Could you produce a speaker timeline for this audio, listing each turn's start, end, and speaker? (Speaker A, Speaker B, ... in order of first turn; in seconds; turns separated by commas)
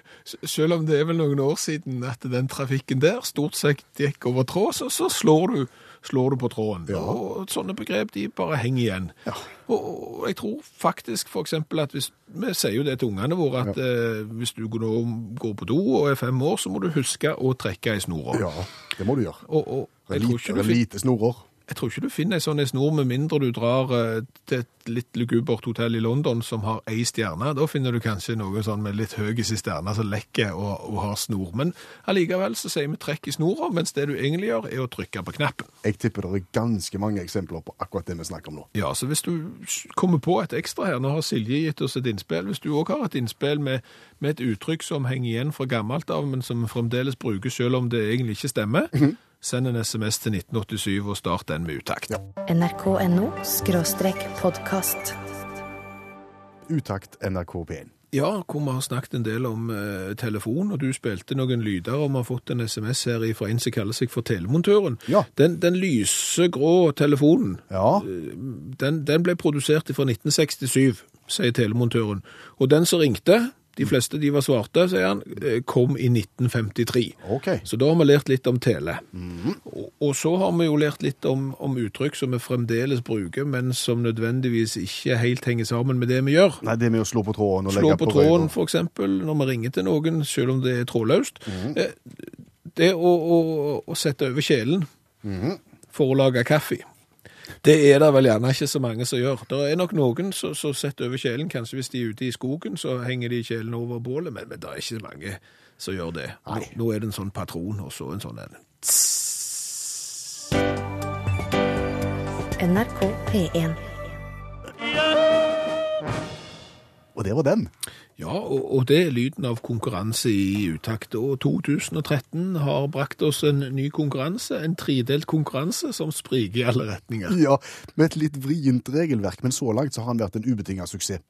Speaker A: 0.2-9.1, Speaker B: 6.9-7.2, Speaker A: 9.7-18.5, Speaker B: 18.3-19.4, Speaker A: 19.5-20.8, Speaker B: 20.1-21.5, Speaker A: 21.7-35.7, Speaker B: 35.8-38.7, Speaker A: 38.7-52.1, Speaker C: 52.5-55.2, Speaker B: 56.7-57.9, Speaker A: 58.1-79.0, Speaker B: 67.7-68.1, Speaker B: 77.2-77.7, Speaker B: 79.1-79.6, Speaker A: 79.6-86.6, Speaker B: 86.6-88.5, Speaker A: 87.7-94.9, Speaker B: 91.5-91.8, Speaker B: 95.2-95.6, Speaker A: 95.9-96.8, Speaker A: 97.6-110.2, Speaker C: 112.6-113.8, Speaker B: 117.1-117.7, Speaker A: 118.2-127.4, Speaker B: 127.3-131.2